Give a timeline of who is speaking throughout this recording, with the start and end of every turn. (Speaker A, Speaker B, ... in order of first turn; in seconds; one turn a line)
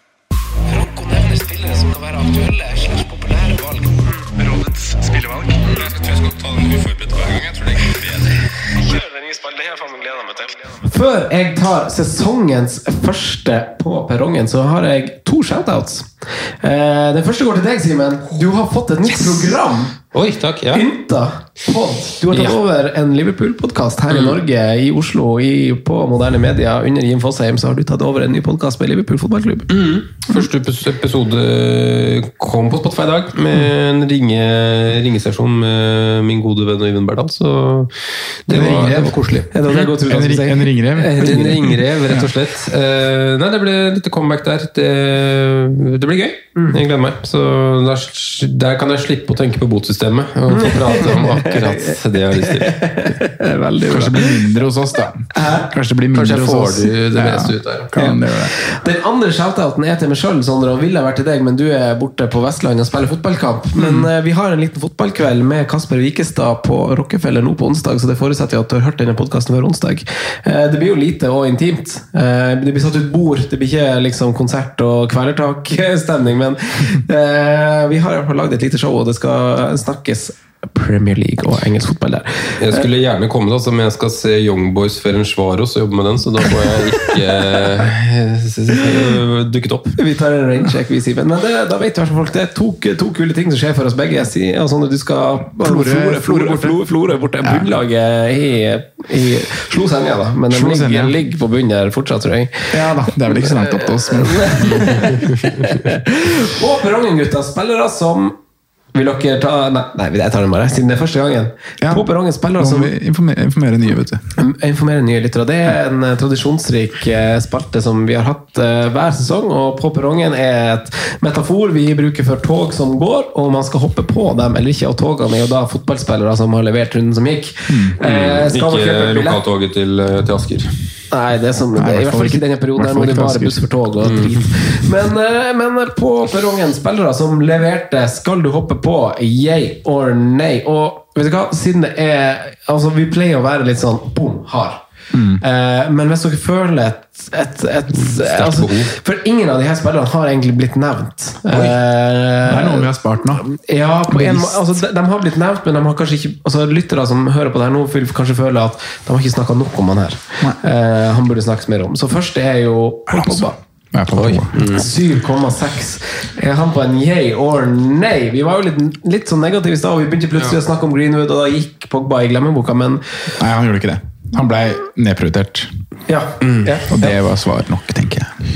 Speaker A: 0.7-7.0
Speaker B: 7.1-8.0
Speaker A: 8.0-19.9
Speaker B: 19.1-19.5
Speaker B: 20.1-20.8
Speaker A: 20.7-29.7
Speaker B: 22.3-22.6
Speaker B: 24.1-24.4
Speaker B: 29.7-39.5
Speaker C: 38.5-42.3
Speaker A: 39.5-41.6
Speaker B: 41.2-52.8
Speaker A: 50.5-54.4
Speaker C: 53.9-58.5
Speaker A: 55.3-55.7
Speaker B: 56.1-57.9
Speaker A: 58.0-82.8
Speaker C: 63.8-64.1
Speaker B: 82.6-90.0
Speaker A: 90.0-108.3
Speaker C: 95.5-96.8
Speaker C: 97.4-97.7
Speaker C: 100.5-101.2
Speaker C: 102.7-105.3
Speaker A: 108.9-112.9
Speaker C: 111.8-112.1
Speaker C: 112.6-114.4
Speaker A: 114.4-129.4
Speaker C: 127.7-128.0
Speaker B: 128.0-131.0
Speaker A: 131.1-144.8
Speaker C: 131.8-134.1
Speaker B: 134.0-134.3
Speaker C: 145.1-145.4
Speaker A: 145.4-152.9
Speaker B: 147.9-148.9
Speaker C: 152.4-153.4
Speaker A: 153.4-163.6
Speaker C: 154.1-154.8
Speaker C: 163.1-164.7
Speaker B: 164.1-164.8
Speaker A: 164.7-173.3
Speaker C: 173.4-175.7
Speaker A: 176.1-177.1
Speaker B: 176.4-176.7
Speaker C: 176.9-178.4